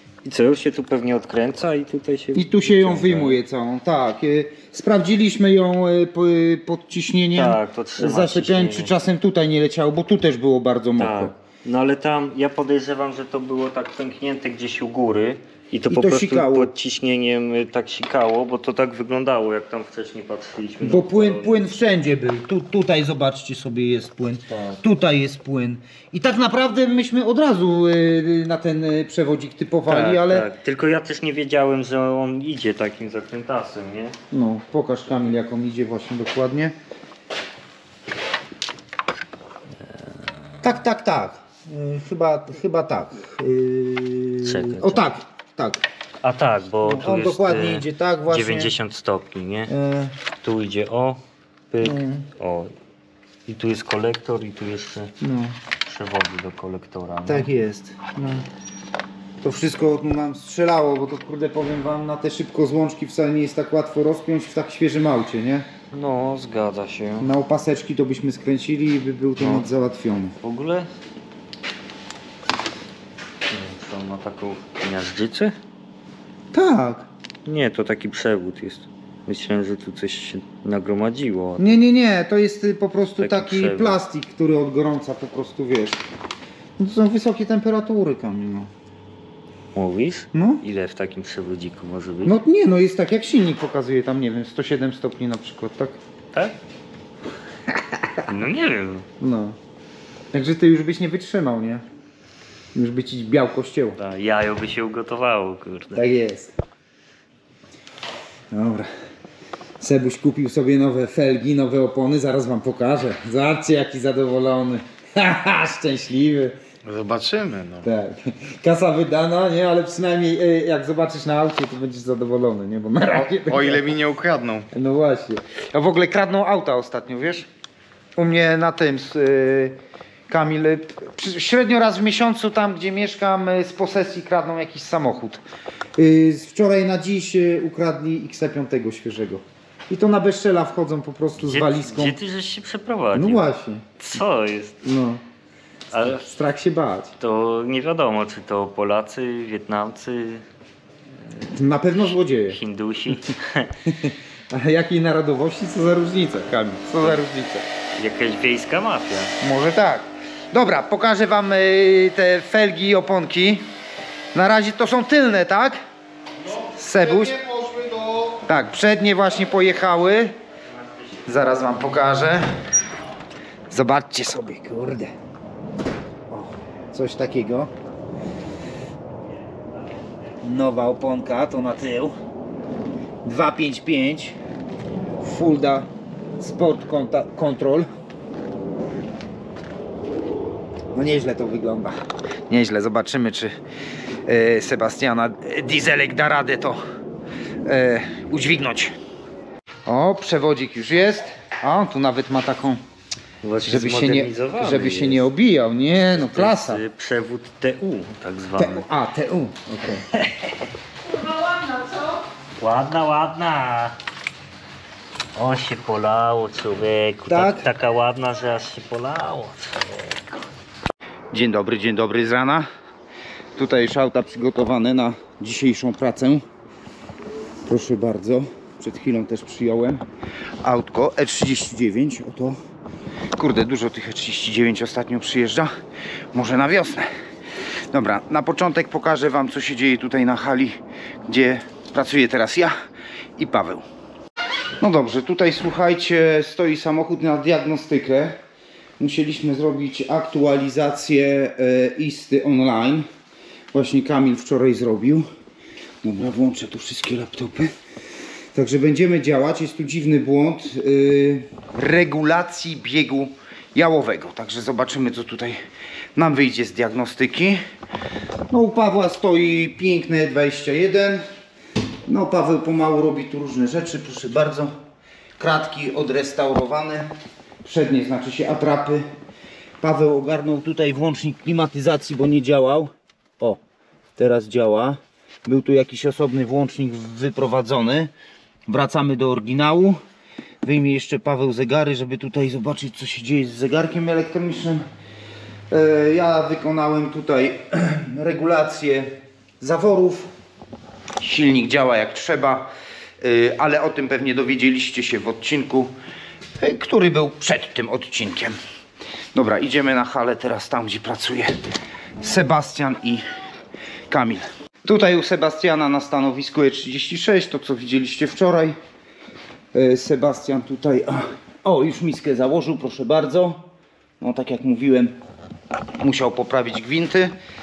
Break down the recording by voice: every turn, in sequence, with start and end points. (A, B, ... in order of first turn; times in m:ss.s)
0:00.2-0:03.4 A
0:02.3-0:11.3 B
0:07.3-0:08.9 A
0:11.0-0:21.6 A
0:15.9-0:16.7 B
0:20.8-0:30.5 B
0:24.5-0:24.8 A
0:29.9-0:34.2 A
0:34.3-0:36.7 B
0:40.6-0:45.8 B
0:44.4-0:45.0 A
0:46.2-0:49.7 A
0:46.8-0:48.7 B
0:49.7-0:50.1 B
0:50.4-0:52.7 A
0:51.8-0:52.3 B
0:53.4-0:55.1 A
0:55.2-0:55.5 B
0:55.8-0:57.5 A
0:57.3-0:58.4 B
0:59.4-1:05.7 B
1:05.9-1:07.3 A
1:07.2-1:10.3 B
1:09.4-1:09.7 A
1:10.4-1:10.9 A
1:13.4-1:15.6 A
1:16.5-1:17.1 B
1:17.4-1:21.8 A
1:21.6-1:26.0 B
1:23.2-1:24.0 A
1:26.8-1:28.7 B
1:29.7-1:32.4 A
1:30.3-1:30.6 B
1:32.2-1:36.0 B
1:37.7-1:38.0 B
1:38.2-1:39.1 A
1:39.2-1:39.6 B
1:40.3-1:41.8 B
1:42.7-1:44.0 B
1:44.0-1:46.0 A
1:45.9-1:46.5 B
1:48.5-1:48.9 B
1:49.8-1:56.6 B
1:56.8-1:57.9 C
1:57.8-2:04.0 B
2:03.4-2:04.7 C
2:04.7-2:07.5 B
2:08.2-2:09.8 B
2:10.3-2:15.4 B
2:16.0-2:22.2 B
2:21.4-2:24.8 A
2:23.1-2:23.8 B
2:24.8-2:25.2 B
2:25.9-2:26.2 A
2:26.0-2:27.1 B
2:27.2-2:30.4 A
2:31.4-2:32.6 B
2:32.5-2:33.7 A
2:33.9-2:37.6 B
2:38.0-2:39.3 A
2:39.4-2:43.7 B
2:44.3-2:45.8 B
2:46.7-2:47.4 B
2:47.4-2:48.3 C
2:48.4-2:50.4 B
2:50.8-2:51.2 A
2:51.2-2:52.5 B
2:53.7-2:55.1 B
2:56.3-2:57.7 B
3:00.4-3:02.2 B
3:03.2-3:04.4 B
3:05.2-3:07.9 B
3:10.9-3:11.9 B
3:12.5-3:13.5 B
3:14.2-3:16.8 B
3:17.6-3:18.9 B
3:19.8-3:22.8 B
3:23.4-3:25.3 A
3:23.6-3:26.8 B
3:26.1-3:28.8 A
3:28.6-3:30.5 B
3:32.6-3:34.0 A
3:35.3-3:40.2 A
3:37.3-3:37.7 B
3:41.3-3:42.6 B
3:43.6-3:46.4 B
3:47.6-3:50.0 B
3:50.6-3:52.6 B
3:53.3-3:55.7 B
3:56.3-3:57.1 B
3:57.9-4:02.7 B
4:03.4-4:03.8 B
4:04.8-4:08.4 B
4:09.0-4:13.1 B
4:13.7-4:15.3 B
4:16.0-4:17.7 B
4:18.5-4:25.6 B
4:26.1-4:27.6 B
4:28.5-4:31.2 B
4:32.0-4:34.7 B
4:35.4-4:37.1 B
4:37.6-4:39.0 B
4:39.8-4:43.6 B
4:44.2-4:48.1 B
4:48.7-4:50.0 B
4:50.6-4:54.8 B
4:55.7-5:00.3 B
5:01.2-5:02.7 B
5:03.2-5:05.9 B
5:06.6-5:08.6 B
5:09.3-5:11.6 B
5:12.2-5:13.2 B
5:14.1-5:18.8 B
5:19.7-5:23.7 B
5:24.2-5:25.2 B
5:26.0-5:27.3 B